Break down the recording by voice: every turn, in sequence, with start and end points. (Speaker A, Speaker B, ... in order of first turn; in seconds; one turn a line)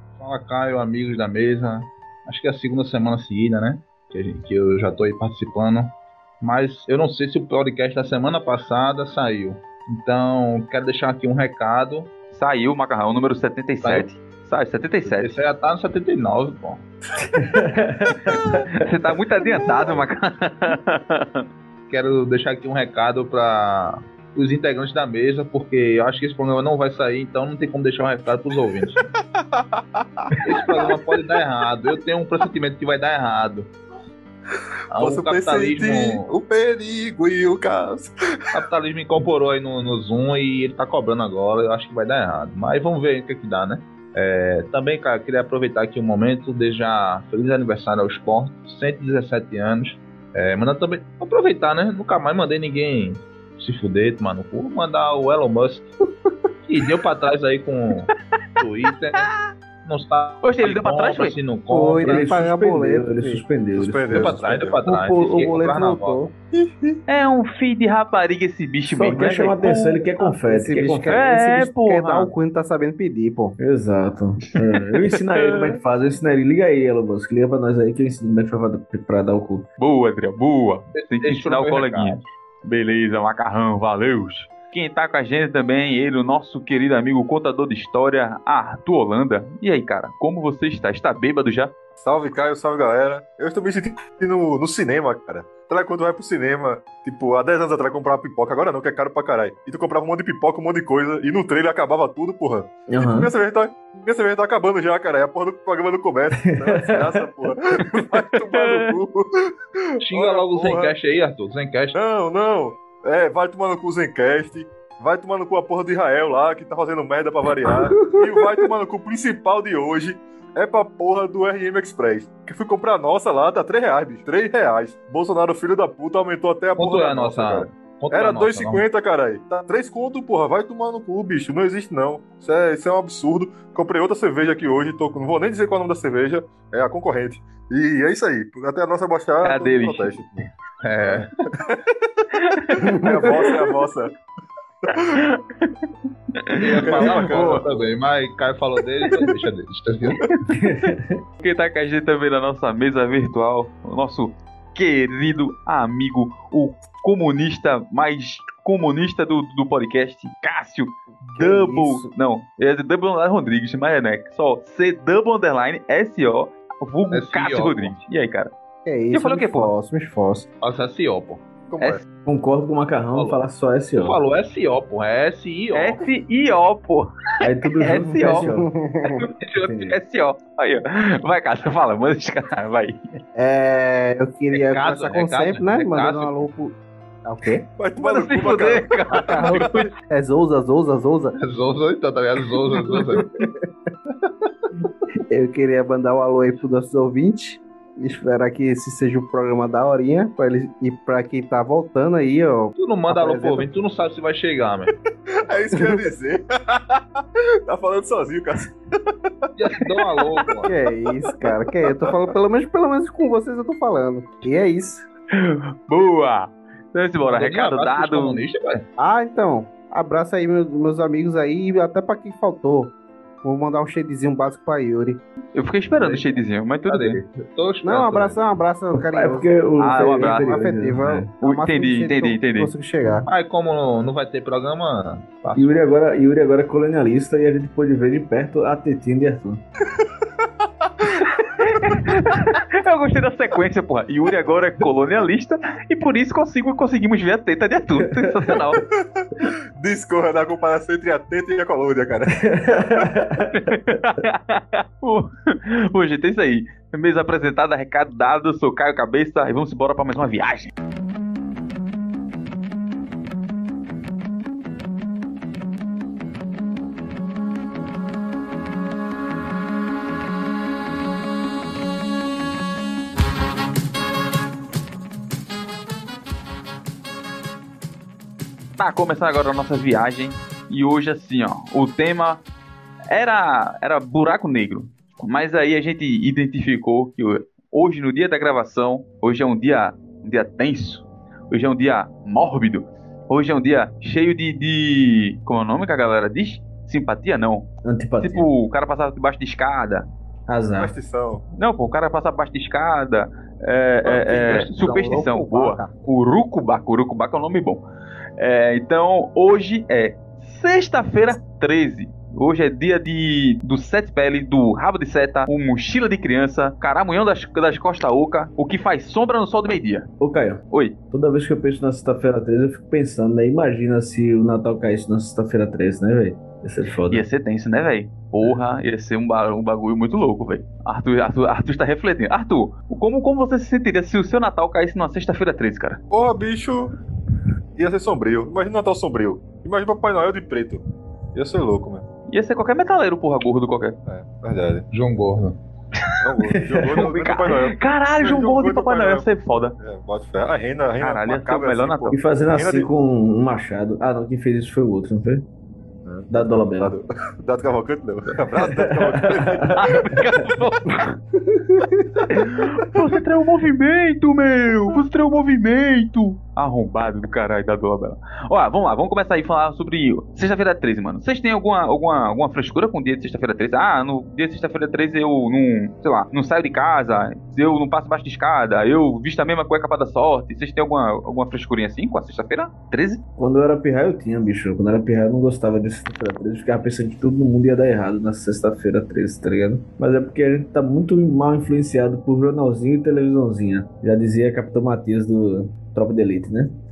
Speaker A: 0.2-12.1
Speaker B: 12.3-15.3
Speaker A: 15.1-16.9
Speaker C: 17.2-18.6
Speaker B: 18.8-21.4
Speaker A: 21.9-29.1
Speaker D: 29.4-30.4
Speaker A: 30.4-33.7
Speaker A: 34.9-36.3
Speaker D: 35.0-38.6
Speaker A: 38.5-55.9
Speaker A: 56.6-59.3
Speaker A: 59.8-62.3
Speaker B: 60.4-61.4
Speaker E: 61.7-63.4
Speaker C: 62.0-64.4
Speaker D: 63.8-64.8
Speaker A: 64.1-66.2
Speaker E: 64.9-66.3
Speaker D: 66.5-67.0
Speaker B: 67.1-70.0
Speaker C: 68.9-71.2
Speaker E: 70.4-73.6
Speaker B: 71.1-72.3
Speaker C: 73.6-79.7
Speaker B: 75.0-75.8
Speaker B: 79.8-91.7
Speaker A: 81.0-82.2
Speaker D: 92.0-110.9
Speaker C: 102.9-103.3
Speaker C: 106.4-107.5
Speaker B: 108.5-109.0
Speaker A: 110.0-112.0
Speaker D: 111.9-140.5
Speaker E: 117.6-118.7
Speaker A: 126.8-128.8
Speaker B: 139.4-140.1
Speaker A: 140.8-141.3
Speaker D: 141.1-142.1
Speaker B: 142.3-142.8
Speaker E: 142.8-143.6
Speaker D: 143.0-144.1
Speaker D: 144.8-145.2
Speaker B: 144.9-145.7
Speaker B: 146.3-147.6
Speaker A: 146.6-150.2
Speaker D: 146.8-147.8
Speaker C: 150.6-151.2
Speaker B: 151.4-168.5
Speaker E: 161.2-162.1
Speaker A: 167.1-167.9
Speaker E: 168.9-170.5
Speaker B: 169.1-169.7
Speaker A: 170.6-171.5
Speaker D: 171.7-172.0
Speaker C: 172.3-174.2
Speaker A: 173.2-173.4
Speaker A: 174.0-176.0
Speaker B: 175.7-177.1
Speaker C: 177.4-178.7
Speaker B: 177.8-178.5
Speaker E: 178.2-179.3
Speaker B: 179.0-183.2
Speaker C: 179.6-180.0
Speaker E: 183.3-187.7
Speaker A: 184.6-186.5
Speaker D: 187.8-189.9
Speaker B: 188.0-189.9
Speaker E: 189.1-191.4
Speaker A: 191.4-193.3
Speaker E: 192.9-193.5
Speaker E: 195.3-203.7
Speaker A: 202.8-204.9
Speaker D: 205.3-210.5
Speaker E: 205.7-206.1
Speaker A: 209.6-210.7
Speaker E: 210.7-215.1
Speaker D: 211.8-212.2
Speaker B: 215.3-218.4
Speaker A: 217.3-218.8
Speaker E: 219.0-222.9
Speaker E: 223.4-225.2
Speaker B: 225.5-227.2
Speaker A: 226.0-228.4
Speaker E: 227.8-233.3
Speaker C: 228.9-231.3
Speaker B: 229.8-230.6
Speaker B: 231.4-232.7
Speaker A: 233.3-235.8
Speaker C: 235.6-239.6
Speaker D: 240.0-241.1
Speaker B: 241.2-248.8
Speaker C: 248.0-248.6
Speaker D: 248.8-253.0
Speaker C: 252.4-253.7
Speaker B: 253.4-260.7
Speaker B: 278.8-282.4
Speaker B: 283.1-297.7
Speaker C: 297.8-298.5
Speaker B: 298.2-300.1
Speaker C: 300.5-300.9
Speaker D: 300.8-301.4
Speaker B: 301.6-307.8
Speaker E: 304.2-305.9
Speaker B: 308.4-320.1
Speaker C: 320.2-327.2
Speaker B: 327.1-336.0
Speaker D: 336.1-336.9
Speaker D: 337.8-340.8
Speaker D: 341.3-342.1
Speaker B: 342.3-344.0
Speaker D: 344.1-344.9
Speaker A: 344.9-345.6
Speaker D: 346.2-349.3
Speaker C: 346.5-347.0
Speaker B: 346.9-349.8
Speaker D: 349.8-352.9
Speaker B: 351.0-352.2
Speaker C: 352.1-355.5
Speaker D: 356.1-360.1
Speaker C: 356.3-357.0
Speaker C: 358.5-360.2
Speaker B: 359.7-361.2
Speaker E: 361.6-362.1
Speaker B: 362.3-383.2
Speaker C: 383.4-396.8